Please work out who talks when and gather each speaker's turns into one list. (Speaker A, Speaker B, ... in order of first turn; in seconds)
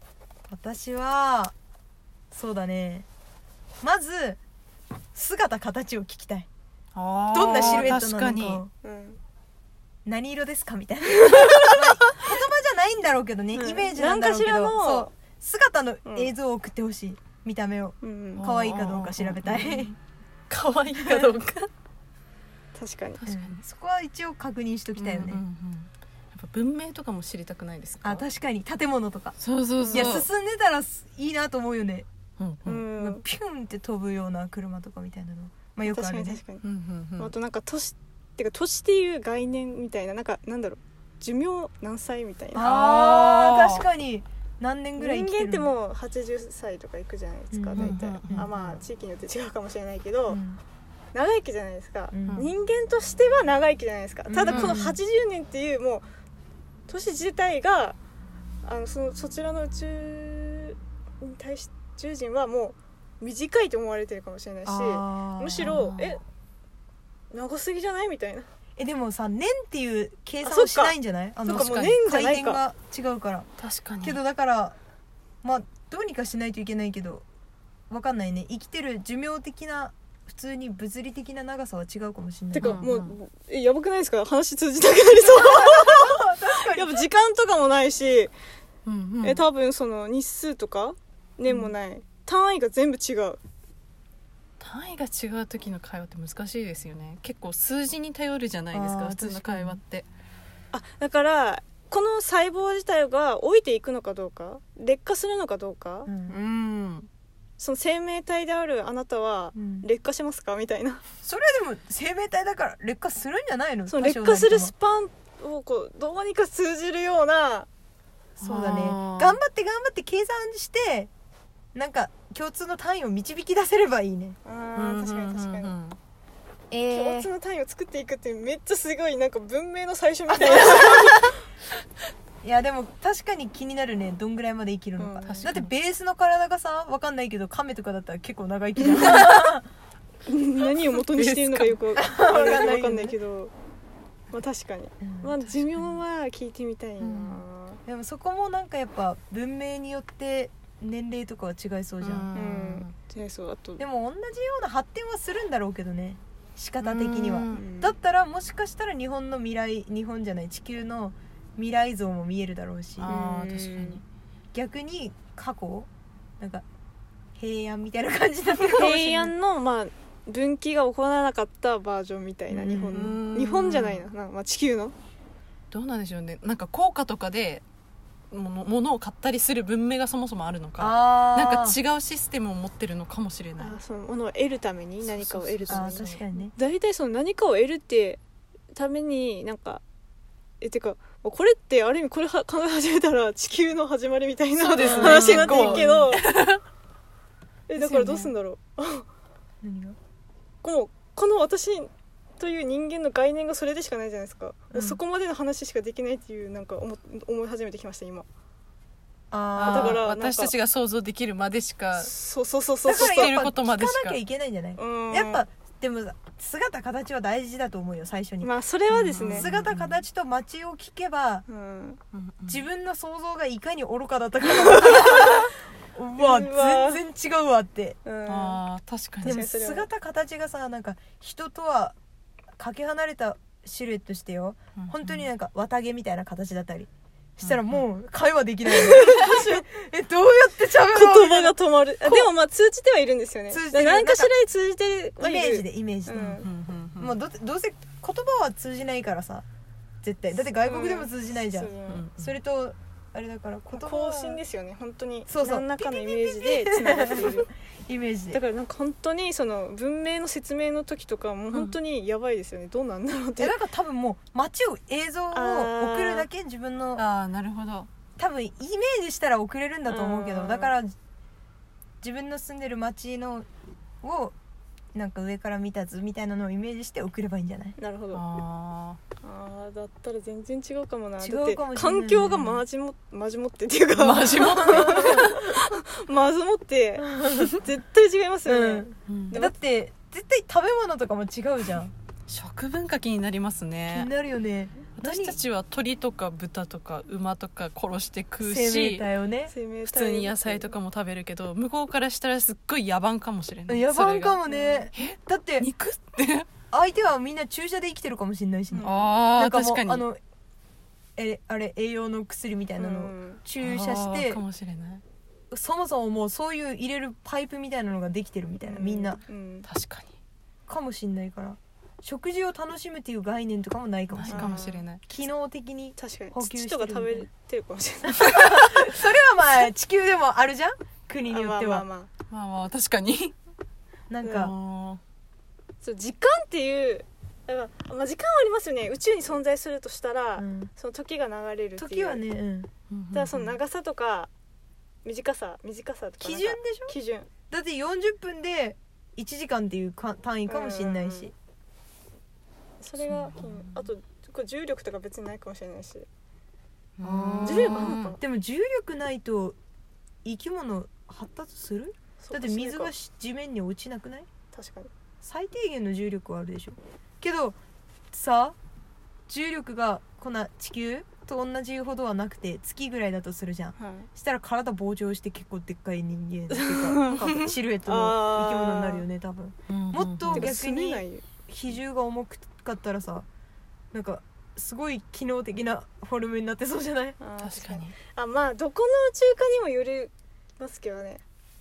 Speaker A: 0.5-1.5, 2.3-3.1, 3.8-4.4, 5.1-6.5, 7.3-8.7, 10.0-19.9, 21.1-21.3, 23.3-25.4, 28.0-29.4, 29.9-32.1, 32.9-36.4, 42.5-45.7, 47.5-48.5, 50.3-50.6, 52.1-52.4, 54.3-55.0, 64.7-66.0, 68.8-73.5, 74.0-74.8, 75.4-77.2, 77.9-82.8, 85.3-87.1, 91.5-91.8, 98.7-99.8, 106.1-106.4, 109.5-109.9, 111.2-114.7, 118.4-121.1, 121.7-124.4, 132.4-139.7, 141.9-143.2, 145.0-145.3, 147.8-152.3, 153.8-163.7, 164.5-166.6, 167.4-169.3, 172.5-173.2, 180.8-181.8, 185.7-186.5, 194.7-196.0, 197.8-198.3, 199.6-199.9, 204.7-205.0, 209.3-210.0, 212.9-218.5, 219.1-221.4, 222.5-228.0, 229.2-231.9, 232.6-242.3, 243.5-244.3, 245.2-246.4, 247.0-249.4, 250.0-254.4, 255.3-258.4, 263.4-267.1, 268.2-270.9, 272.0-273.5, 274.0-274.4, 274.9-277.8, 281.2-282.6, 284.6-285.4, 287.0-287.5, 288.5-291.9, 293.9-295.4, 298.4-299.5, 303.7-305.7, 306.7-310.2, 311.2-314.4, 315.5-319.2, 320.7-327.3, 328.1-331.9, 334.1-334.5, 340.4-340.7, 341.8-342.7, 346.2-347.0, 347.5-351.3, 357.0-359.6, 360.2-364.3, 365.2-367.6, 368.1-368.6, 369.3-383.2, 383.9-387.2
Speaker B: 7.0-8.6, 11.3-11.8, 18.4-19.9, 20.5-21.7, 23.2-23.6, 25.0-28.2, 29.4-30.3, 32.4-32.9, 36.6-37.3, 42.6-43.8, 47.8-48.8, 54.5-54.8, 65.6-65.9, 71.5-72.0, 73.6-74.2, 82.6-83.1, 88.8-89.4, 94.6-100.1, 106.3-107.1, 118.4-119.4, 124.8-126.0, 126.7-127.3, 135.2-135.7, 139.0-139.2, 140.7-141.8, 145.4-146.0, 147.0-147.4, 152.0-152.9, 156.8-157.6, 163.0-164.0, 172.9-174.0, 175.7-177.6, 178.3-183.8, 185.0-186.1, 194.6-196.6, 197.8-198.3, 209.5-212.1, 212.9-214.2, 218.9-220.0, 222.1-222.6, 228.3-229.4, 234.8-235.3, 237.4-237.8, 246.4-247.2, 251.9-252.3, 267.0-267.9, 278.1-279.0, 284.0-285.3, 289.1-289.4, 292.3-294.1, 295.0-299.1, 299.8-306.5, 308.8-310.1, 313.6-315.0, 319.7-320.1, 324.1-325.0, 332.3-333.3, 334.3-335.0, 342.9-343.6, 353.0-353.9, 357.0-358.2, 379.7-380.5, 387.4-388.0
Speaker C: 8.8-9.2, 13.5-15.1, 16.0-16.3, 18.0-18.4, 22.7-23.2, 29.8-30.1, 32.7-33.2, 35.8-36.6, 37.2-42.7, 45.0-50.4, 51.1-56.1, 56.9-58.0, 58.6-66.2, 67.3-68.5, 70.4-72.6, 82.5-88.3, 89.2-93.4, 100.7-106.1, 107.6-111.0, 113.9-117.7, 124.4-125.8, 126.8-131.3, 135.0-135.5, 138.9-139.3, 140.2-143.5, 144.3-147.8, 152.3-153.8, 157.5-157.9, 168.6-174.9, 183.6-188.2, 188.7-189.8, 190.6-196.2, 197.7-199.1, 200.6-208.3, 209.7-210.5, 211.9-213.4, 214.8-215.4, 218.4-219.5, 221.5-222.0, 224.5-225.5, 226.2-227.0, 228.0-228.6, 229.2-229.9, 238.7-239.7, 240.9-246.5, 250.6-252.1, 253.7-257.5, 258.3-263.6, 265.3-266.3, 269.9-270.8, 277.8-278.3, 279.2-289.6, 299.5-300.7, 304.5-304.9, 308.7-309.0, 312.8-313.4, 318.6-319.7, 324.3-324.9, 326.0-328.7, 331.3-332.1, 335.8-342.2, 343.1-344.3, 345.1-347.3, 350.5-351.3, 352.8-356.1, 357.4-358.2, 362.2-362.9, 364.5-364.9, 373.8-374.1, 376.5-379.0, 380.3-381.2, 387.2-391.2